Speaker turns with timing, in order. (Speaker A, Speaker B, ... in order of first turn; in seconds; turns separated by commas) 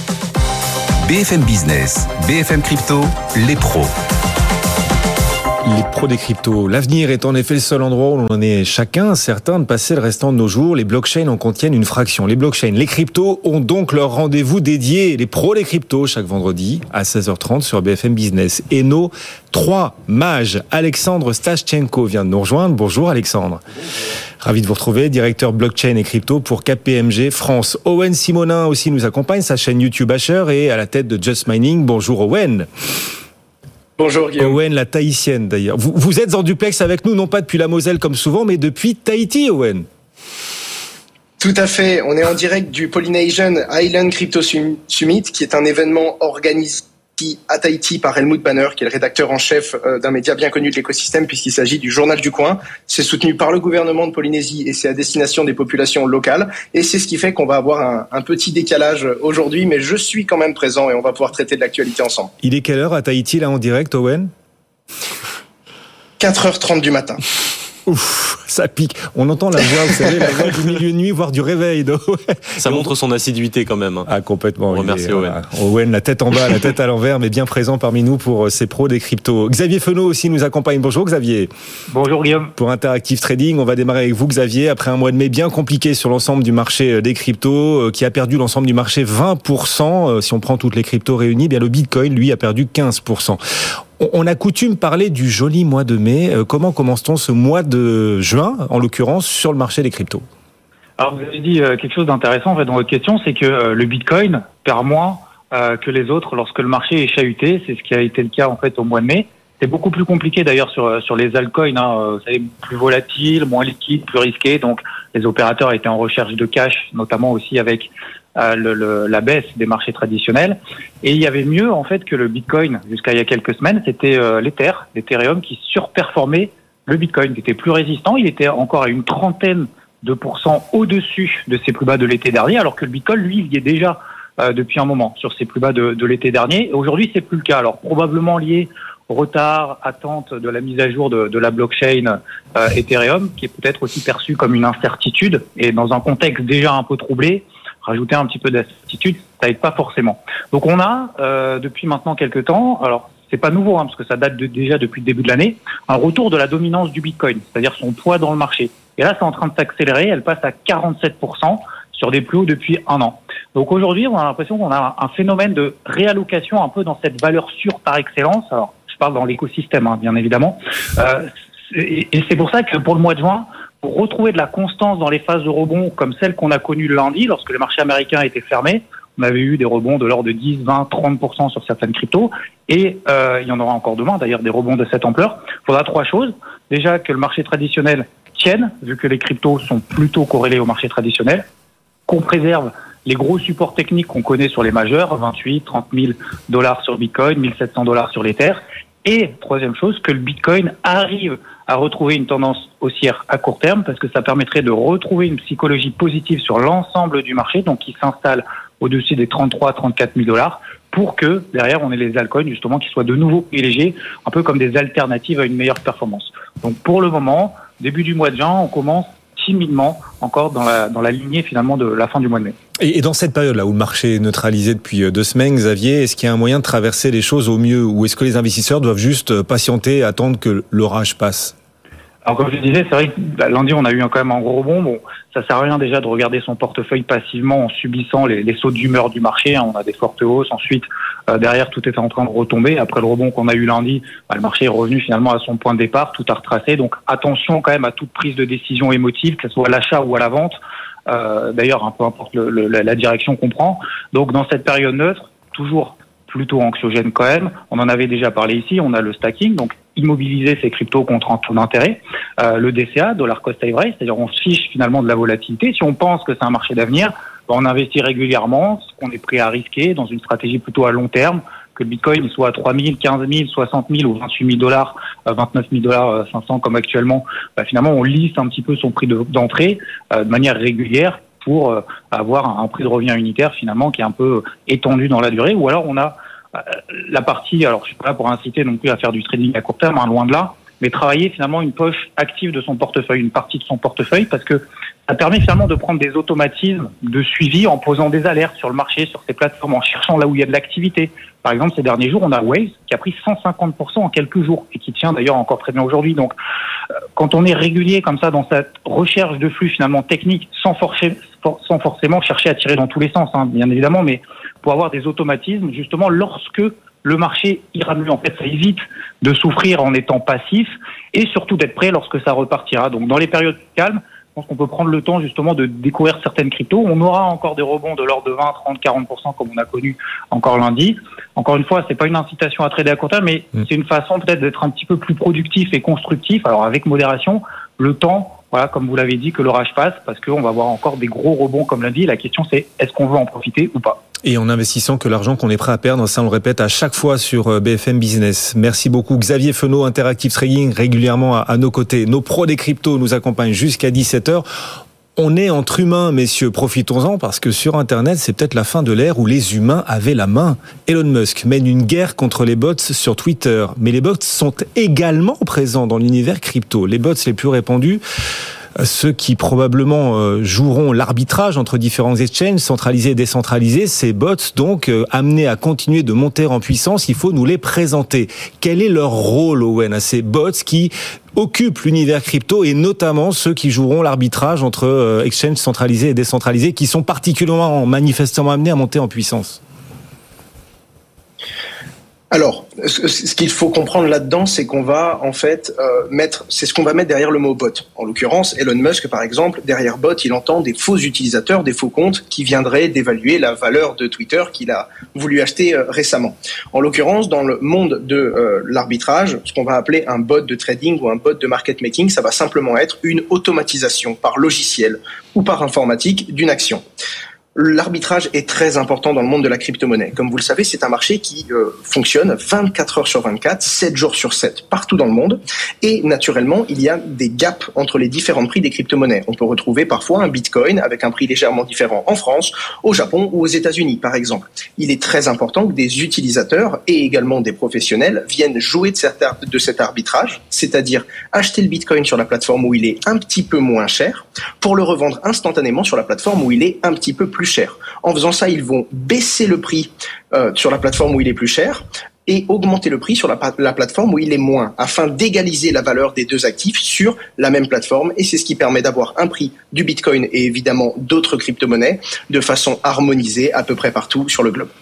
Speaker A: 1.0-3.9, Speaker B: 5.6-23.6, Speaker B: 24.4-32.7, Speaker C: 34.0-34.6, Speaker B: 34.4-39.9, Speaker C: 41.4-62.3, Speaker B: 62.4-64.3, Speaker C: 66.2-67.2, Speaker B: 67.8-72.9, Speaker D: 72.6-74.1, Speaker B: 74.0-81.5, Speaker D: 74.7-75.4, Speaker E: 81.9-82.5, Speaker B: 82.6-93.4, Speaker B: 94.0-100.2, Speaker E: 101.0-191.4, Speaker E: 192.1-222.6, Speaker B: 222.8-231.5, Speaker E: 232.2-306.3, Speaker E: 307.1-344.0, Speaker B: 344.2-354.4, Speaker B: 355.1-368.0, Speaker B: 368.8-389.6, Speaker C: 392.3-416.8, Speaker C: 417.5-464.7